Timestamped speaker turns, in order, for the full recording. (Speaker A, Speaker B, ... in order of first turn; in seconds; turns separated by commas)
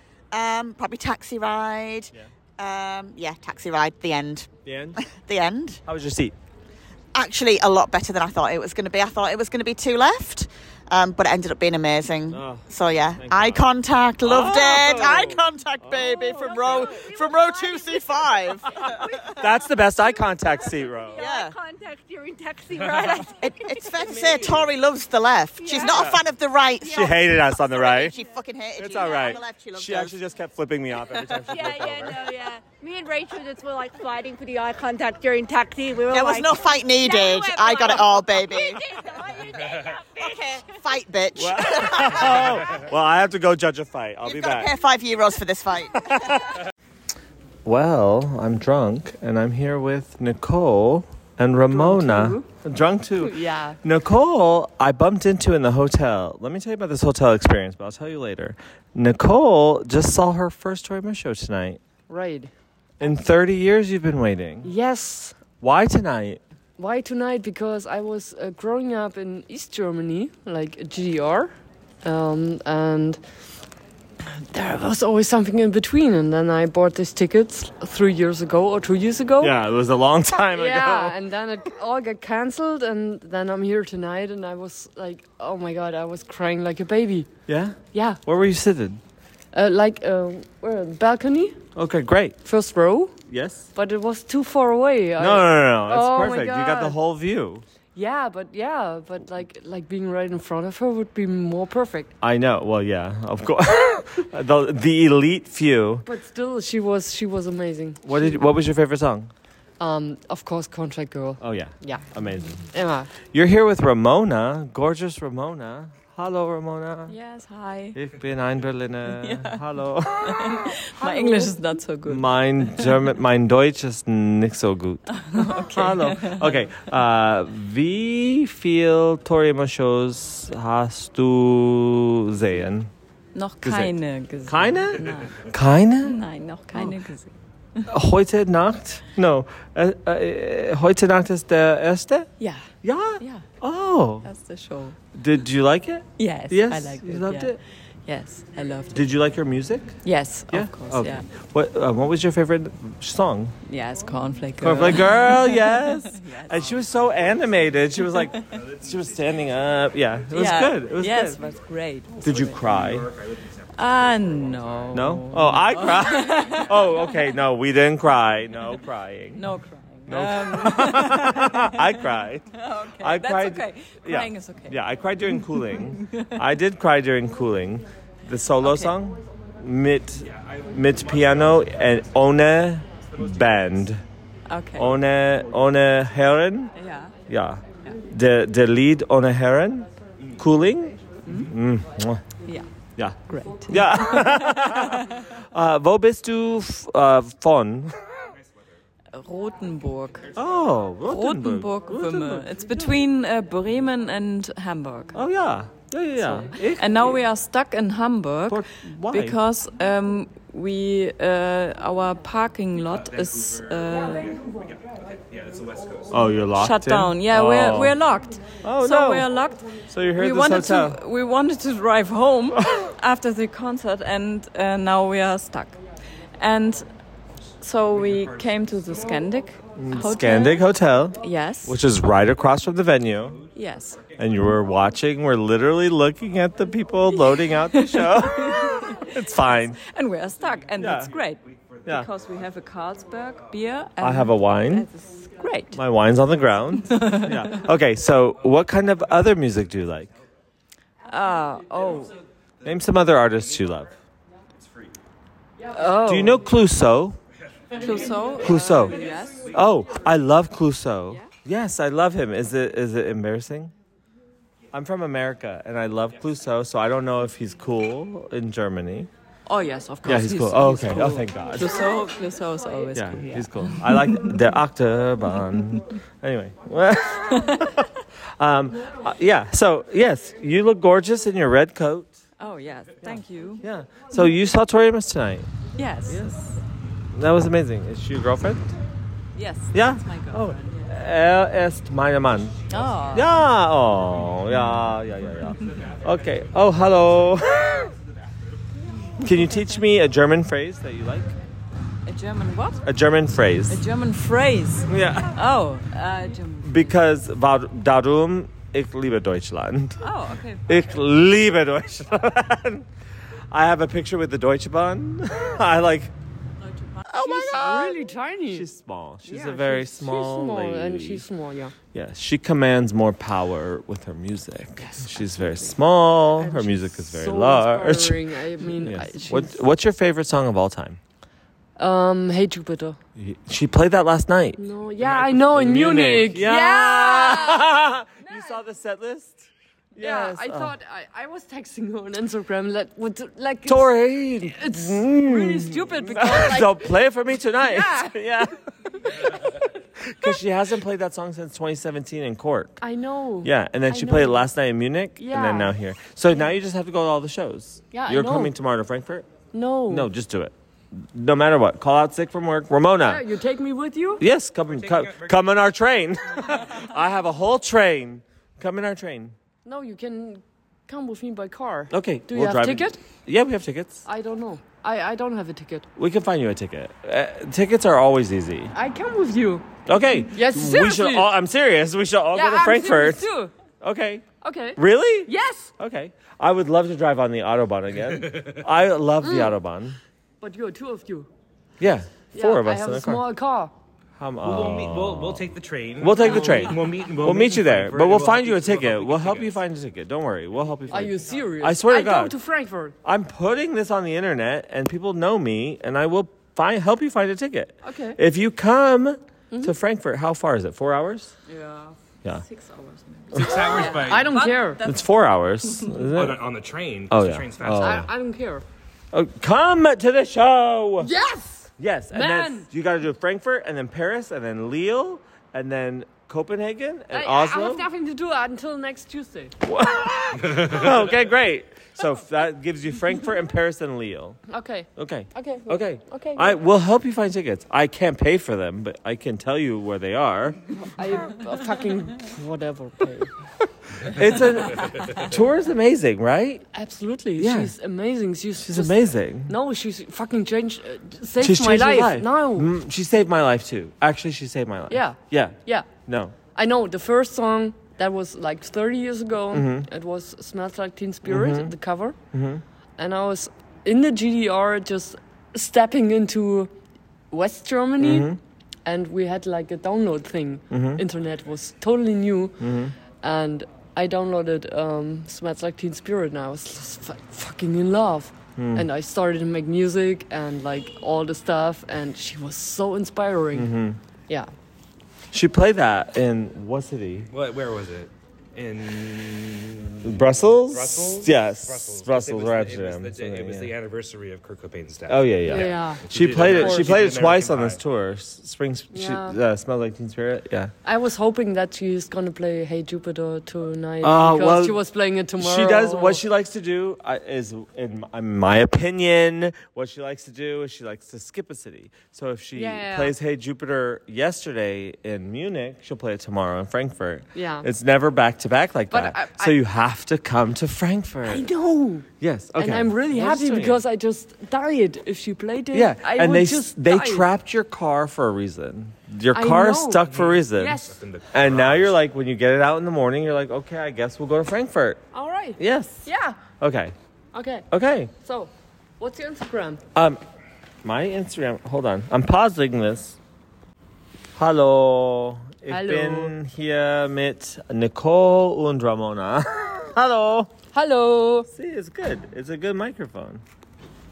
Speaker A: 0.3-5.8, Speaker B: 4.7-5.0, Speaker B: 5.9-6.3, Speaker A: 7.1-19.3, Speaker B: 12.3-13.6, Speaker B: 14.2-16.2, Speaker C: 15.9-24.6, Speaker B: 18.8-21.2, Speaker A: 21.2-21.6, Speaker A: 23.4-30.2, Speaker C: 25.6-26.2, Speaker B: 25.8-26.2, Speaker C: 26.8-27.1, Speaker B: 26.9-28.1, Speaker B: 28.8-32.3, Speaker C: 28.9-29.4, Speaker C: 31.5-40.8, Speaker A: 36.0-42.7, Speaker B: 41.4-44.7, Speaker A: 44.2-46.4, Speaker B: 46.1-46.4, Speaker B: 47.6-61.8, Speaker D: 51.7-52.5, Speaker D: 53.2-53.8, Speaker D: 62.1-62.5, Speaker B: 63.0-64.7, Speaker D: 64.6-65.4, Speaker B: 65.6-66.4, Speaker D: 66.8-73.3, Speaker D: 74.5-79.6, Speaker B: 79.4-81.2, Speaker D: 80.5-87.3, Speaker B: 87.5-89.0, Speaker D: 87.9-88.2, Speaker D: 89.5-91.7, Speaker B: 91.8-92.4, Speaker D: 92.4-93.2, Speaker B: 93.3-93.7, Speaker D: 93.7-97.0, Speaker B: 95.2-97.6, Speaker D: 97.9-102.1, Speaker B: 102.2-106.0, Speaker D: 106.0-108.4, Speaker B: 108.0-109.3, Speaker D: 109.8-112.1, Speaker B: 111.4-112.7, Speaker D: 112.6-113.1, Speaker B: 113.3-117.2, Speaker E: 117.1-118.0, Speaker B: 117.9-121.5, Speaker E: 119.1-123.0, Speaker B: 122.0-132.9, Speaker E: 125.1-126.6, Speaker E: 133.3-135.5, Speaker B: 133.6-136.2, Speaker E: 136.0-137.8, Speaker B: 137.9-142.3, Speaker E: 142.4-142.7, Speaker B: 142.8-144.3, Speaker E: 143.2-143.5, Speaker E: 144.2-145.0, Speaker B: 145.1-147.6, Speaker E: 146.2-149.1, Speaker B: 148.9-150.0, Speaker E: 150.0-151.3, Speaker B: 150.5-153.6, Speaker E: 153.7-156.8, Speaker B: 154.6-161.4, Speaker E: 158.0-158.6, Speaker E: 160.3-162.5, Speaker B: 162.2-163.1, Speaker F: 162.8-163.1, Speaker E: 163.8-167.3, Speaker B: 164.9-169.4, Speaker E: 169.3-176.4, Speaker B: 170.1-172.5, Speaker B: 173.0-184.0, Speaker E: 178.6-178.9, Speaker F: 180.3-181.8, Speaker F: 183.2-183.4, Speaker E: 184.5-185.0, Speaker B: 184.8-186.7, Speaker E: 186.8-187.2, Speaker B: 187.3-192.2, Speaker E: 192.4-192.7, Speaker B: 193.0-197.9, Speaker E: 193.2-195.2, Speaker E: 199.1-200.3, Speaker B: 200.3-202.9, Speaker E: 201.0-205.2, Speaker B: 205.1-207.2, Speaker E: 206.2-214.4, Speaker B: 208.5-209.4, Speaker F: 212.8-213.7, Speaker F: 215.3-216.1, Speaker B: 216.1-218.0, Speaker E: 216.5-225.8, Speaker B: 218.6-219.3, Speaker B: 219.9-221.0, Speaker E: 226.4-226.9, Speaker E: 227.6-231.8, Speaker F: 228.0-228.3, Speaker B: 229.8-233.4, Speaker E: 233.6-234.0, Speaker B: 234.2-239.8, Speaker E: 237.1-245.8, Speaker B: 240.8-241.1, Speaker B: 244.0-244.9, Speaker B: 245.7-250.1, Speaker E: 246.9-247.6, Speaker E: 251.1-252.2, Speaker B: 252.6-253.9, Speaker D: 255.6-256.5, Speaker B: 256.1-257.2, Speaker E: 257.8-259.6, Speaker B: 258.4-263.7, Speaker B: 264.7-269.1, Speaker D: 269.5-271.2, Speaker E: 270.0-274.2, Speaker B: 270.1-271.8, Speaker B: 272.9-282.2, Speaker E: 277.5-277.8, Speaker E: 282.4-283.6, Speaker B: 283.0-285.5, Speaker E: 285.8-286.6, Speaker B: 286.1-286.3, Speaker B: 287.1-288.7, Speaker E: 289.4-290.9, Speaker B: 289.7-292.6, Speaker E: 292.7-293.4, Speaker B: 293.1-297.9, Speaker B: 299.2-301.4, Speaker E: 299.3-299.8, Speaker E: 302.1-302.9, Speaker B: 302.8-303.8, Speaker E: 303.7-307.0, Speaker B: 304.9-305.4, Speaker B: 306.6-310.0, Speaker E: 310.0-310.9, Speaker B: 310.7-312.9, Speaker B: 313.5-316.1, Speaker E: 316.6-317.1, Speaker B: 317.1-317.9, Speaker D: 317.1-318.7, Speaker B: 318.5-321.3, Speaker D: 319.2-321.7, Speaker B: 321.9-328.2, Speaker D: 324.8-325.7, Speaker D: 326.4-329.6, Speaker B: 328.8-331.0, Speaker D: 331.8-333.0, Speaker B: 333.2-340.7, Speaker D: 334.6-338.6, Speaker D: 340.0-346.9, Speaker B: 343.6-348.6, Speaker D: 347.6-348.1, Speaker B: 350.0-352.8, Speaker D: 352.8-354.4, Speaker B: 353.4-359.3, Speaker D: 355.2-355.7, Speaker D: 357.9-358.6, Speaker D: 359.5-360.1, Speaker B: 359.9-363.2, Speaker D: 363.0-364.2, Speaker B: 364.2-369.4, Speaker F: 364.6-365.6, Speaker D: 369.6-373.0, Speaker B: 371.9-374.0, Speaker D: 374.1-375.9, Speaker B: 376.0-378.7, Speaker D: 378.7-379.7, Speaker B: 379.9-383.3, Speaker D: 380.3-381.3, Speaker D: 382.3-383.5, Speaker B: 383.8-384.2, Speaker D: 384.4-385.7, Speaker B: 384.8-390.0, Speaker F: 388.1-388.6, Speaker D: 389.2-389.5, Speaker D: 390.4-391.3, Speaker B: 391.8-393.2, Speaker D: 392.3-393.7, Speaker B: 394.2-395.5, Speaker F: 394.4-399.6, Speaker B: 396.0-402.4, Speaker D: 396.2-396.8, Speaker D: 400.9-402.9, Speaker B: 403.0-411.3, Speaker D: 407.8-408.2, Speaker D: 409.5-409.8, Speaker E: 411.5-414.5, Speaker F: 413.3-414.8, Speaker B: 413.3-413.6, Speaker D: 413.8-414.8, Speaker B: 414.8-416.4, Speaker F: 416.1-418.1, Speaker B: 417.1-418.1, Speaker D: 417.8-418.6, Speaker B: 419.1-421.1, Speaker D: 421.0-422.7, Speaker B: 421.8-427.9, Speaker D: 427.1-429.6, Speaker B: 429.6-434.4, Speaker F: 430.4-431.2, Speaker D: 434.5-436.6, Speaker B: 435.0-440.6, Speaker D: 440.8-443.3, Speaker B: 444.1-446.6, Speaker D: 446.7-452.7, Speaker B: 447.4-447.7, Speaker B: 448.6-449.5, Speaker B: 451.4-456.4, Speaker D: 454.9-455.9, Speaker D: 456.5-462.2, Speaker B: 459.5-459.9, Speaker B: 461.2-461.8, Speaker B: 462.3-462.6, Speaker D: 463.0-466.7, Speaker D: 467.3-468.3, Speaker B: 468.0-468.4, Speaker D: 468.9-472.6, Speaker B: 470.7-471.0, Speaker B: 472.6-472.9, Speaker D: 473.2-483.7, Speaker B: 478.6-478.9, Speaker B: 483.5-484.0, Speaker B: 485.3-487.3, Speaker F: 487.3-497.8, Speaker B: 490.0-493.7, Speaker B: 495.1-500.7, Speaker D: 495.4-497.1, Speaker D: 498.9-499.4, Speaker D: 500.8-506.2, Speaker B: 504.0-504.8, Speaker B: 505.4-521.5, Speaker D: 512.6-513.1, Speaker D: 517.3-517.7, Speaker D: 518.9-519.6, Speaker D: 521.3-527.3, Speaker B: 522.2-523.8, Speaker B: 525.7-530.8, Speaker D: 529.3-531.0, Speaker F: 530.1-532.0, Speaker B: 531.3-535.0, Speaker D: 535.1-536.4, Speaker B: 535.6-536.1, Speaker B: 536.6-536.9, Speaker D: 537.3-537.7, Speaker B: 537.7-538.1, Speaker D: 538.2-539.8, Speaker B: 540.0-540.2, Speaker B: 540.8-543.2, Speaker B: 544.4-550.5, Speaker D: 545.7-546.3, Speaker D: 550.7-551.5, Speaker B: 551.5-553.4